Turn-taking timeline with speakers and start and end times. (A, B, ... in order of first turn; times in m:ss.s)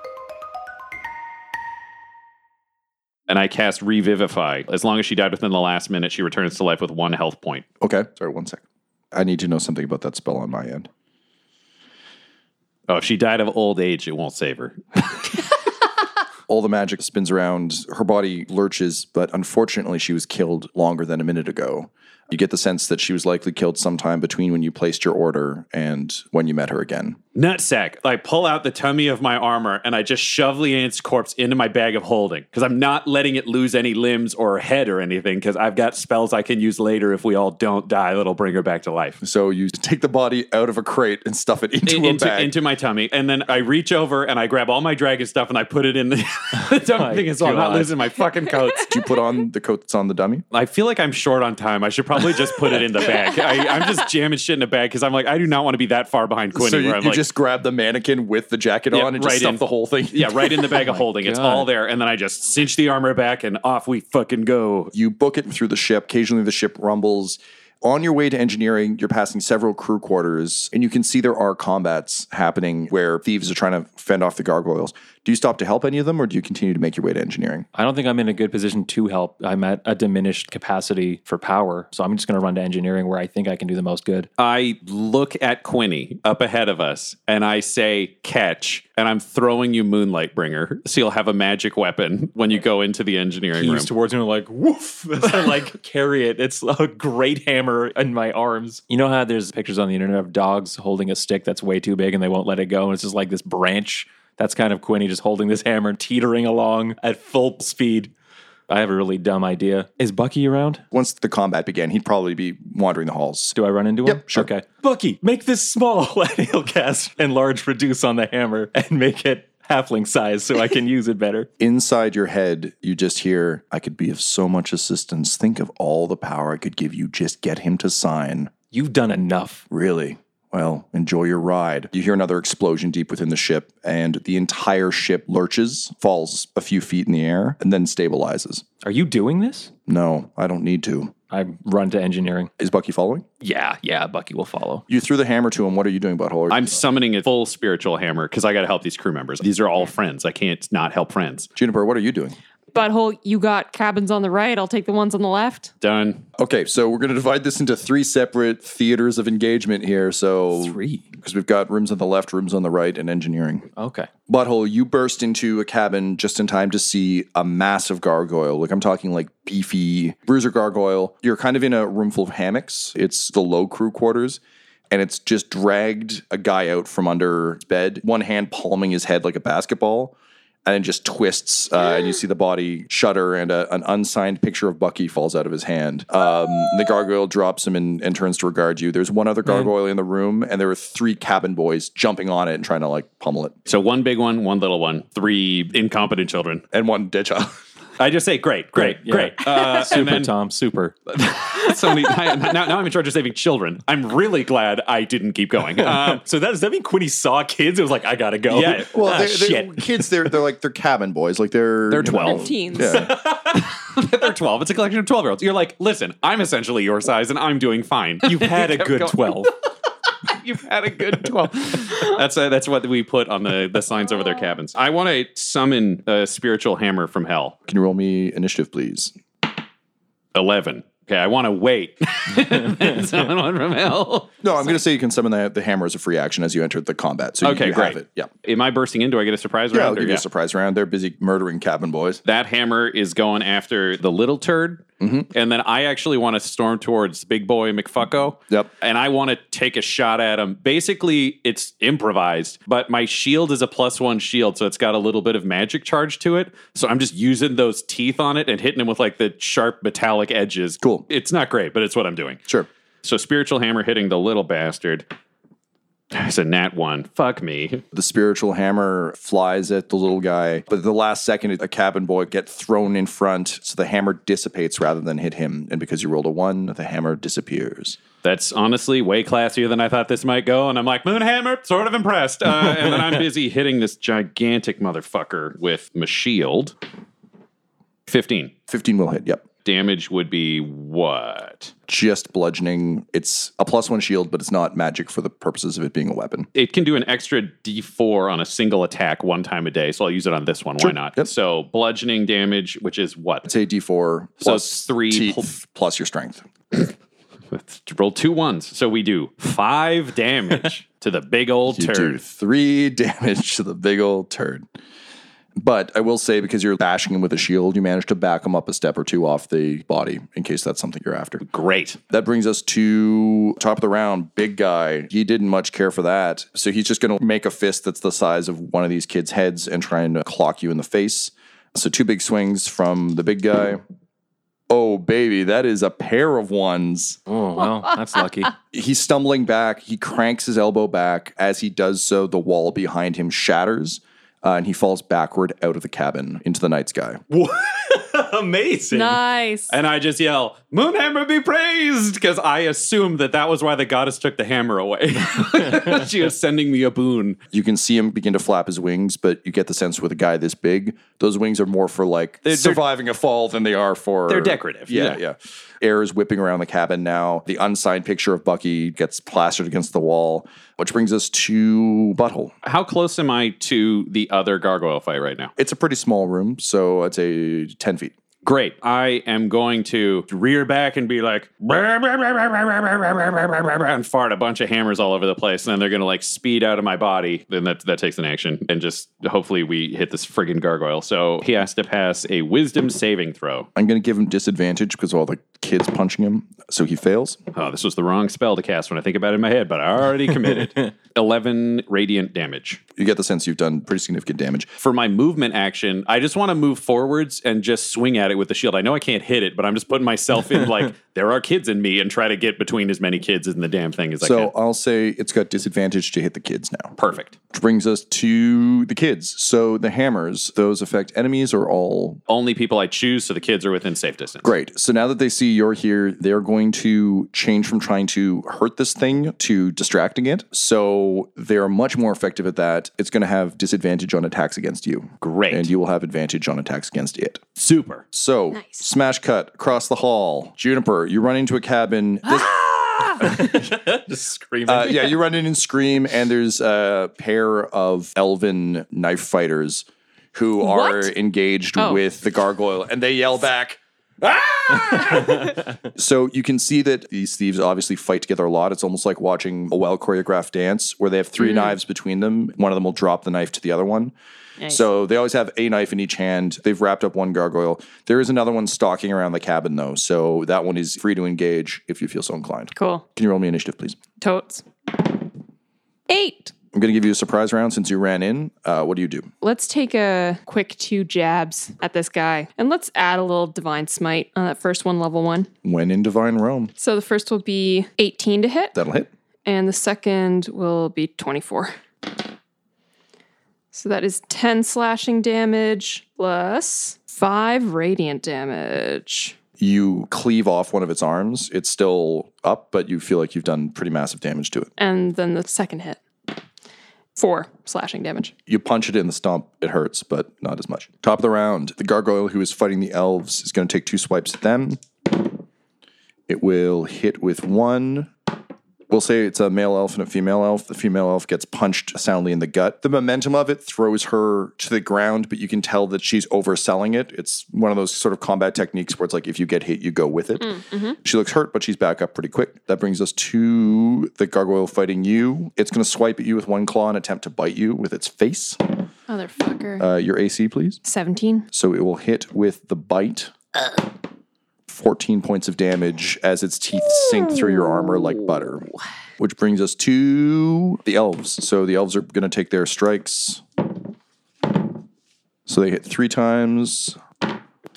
0:03.3-0:07.6 A
0:07.8-0:08.6 B
0:09.1-0:10.9 B
0:12.9-0:15.4 A
0:16.5-0:27.2 B
0:27.4-0:39.2 A
0:39.2-0:42.6 B
0:41.9-0:48.9 A
0:46.9-0:48.0 C
0:48.9-0:50.4 B
0:50.5-0:57.2 A
0:56.6-1:00.7 B
0:58.9-1:04.9 A
1:00.6-1:01.7 C
1:04.9-1:17.7 B
1:17.8-1:24.3 C
1:24.4-1:33.9 A
1:33.6-1:48.1 C
1:35.2-1:35.6 A
1:48.7-1:50.8 C
1:50.9-1:54.5 B
1:53.6-2:01.5 C
2:01.6-2:08.5 B
2:08.7-2:09.7 C
2:09.7-2:18.6 B
2:18.8-2:19.7 C
2:19.9-2:21.1 B
2:21.3-2:22.5 C
2:22.6-2:23.3 B
2:23.4-2:24.8 C
2:24.9-2:26.8 B
2:26.5-2:31.5 A
2:31.6-2:32.4 B
2:32.7-2:35.7 D
2:35.8-2:36.2 A
2:36.4-2:43.7 B
2:40.5-2:41.1 C
2:43.8-2:44.1 C
2:44.3-3:00.2 B
3:00.7-3:13.6 B
3:13.7-3:16.6 A
3:16.7-3:17.5 B
3:18.0-3:20.3 A
3:18.8-3:21.0 C
3:21.1-3:26.2 A
3:25.8-3:30.3 C
3:28.5-3:28.9 A
3:28.9-3:33.1 B
3:31.9-3:39.2 A
3:32.1-3:33.1 D
3:38.3-3:39.5 C
3:40.2-3:47.6 A
3:47.7-3:49.1 B
3:50.4-3:54.3 A
3:54.4-3:58.3 B
3:57.4-4:00.2 A
3:59.7-4:02.2 B
4:02.2-4:22.4 A
4:05.0-4:05.3 B
4:20.8-4:21.1 B
4:23.0-4:25.1 A
4:26.1-4:27.8 A
4:27.9-4:38.0 B
4:38.2-4:46.8 A
4:48.1-4:48.5 A
4:48.7-4:49.4 B
4:49.6-4:51.7 A
4:51.9-4:56.5 B
4:56.6-5:03.5 A
5:00.8-5:01.3 B
5:03.5-5:06.5 B
5:04.4-5:05.5 A
5:07.5-5:12.2 A
5:11.7-5:14.7 B
5:15.6-5:21.4 B
5:21.4-5:22.0 A
5:22.1-5:33.8 B
5:34.7-5:37.2 B
5:37.3-5:38.5 C
5:38.7-5:47.2 B
5:47.3-5:49.2 C
5:48.9-5:49.8 D
5:49.7-5:57.4 A
5:57.5-6:12.5 B
6:02.5-6:02.8 A
6:04.3-6:05.2 A
6:12.6-6:15.5 A
6:15.6-6:18.1 B
6:18.4-6:33.7 A
6:33.8-6:37.4 B
6:37.5-6:42.8 A
6:43.0-6:44.7 B
6:44.8-6:54.5 A
6:54.2-6:57.0 B
6:57.0-6:57.3 A
6:57.5-7:02.2 B
7:02.3-7:04.5 A
7:04.4-7:17.4 B
7:15.2-7:15.7 A
7:17.6-7:18.0 A
7:18.1-7:23.7 B
7:18.5-7:18.8 D
7:23.2-7:25.1 C
7:24.7-7:44.1 B
7:30.6-7:31.1 D
7:31.8-7:32.0 D
7:41.4-7:41.7 D
7:44.7-7:54.0 B
7:52.8-7:53.0 D
7:54.2-7:54.6 D
7:56.1-7:56.5 D
7:56.7-7:59.3 B
7:59.4-8:05.5 D
8:05.6-8:06.7 B
8:06.8-8:08.8 D
8:08.8-8:09.1 B
8:09.4-8:11.8 D
8:13.7-8:19.4 D
8:19.6-8:24.7 B
8:24.8-8:26.0 D
8:27.2-8:28.3 D
8:28.5-8:34.8 B
8:36.3-8:38.1 B
8:38.9-8:58.6 B
8:50.5-8:51.0 D
8:59.1-8:59.9 D
8:59.8-9:00.8 B
9:00.8-9:01.5 D
9:01.5-9:03.3 B
9:04.7-9:08.7 B
9:09.2-9:13.4 B
9:15.5-9:17.0 B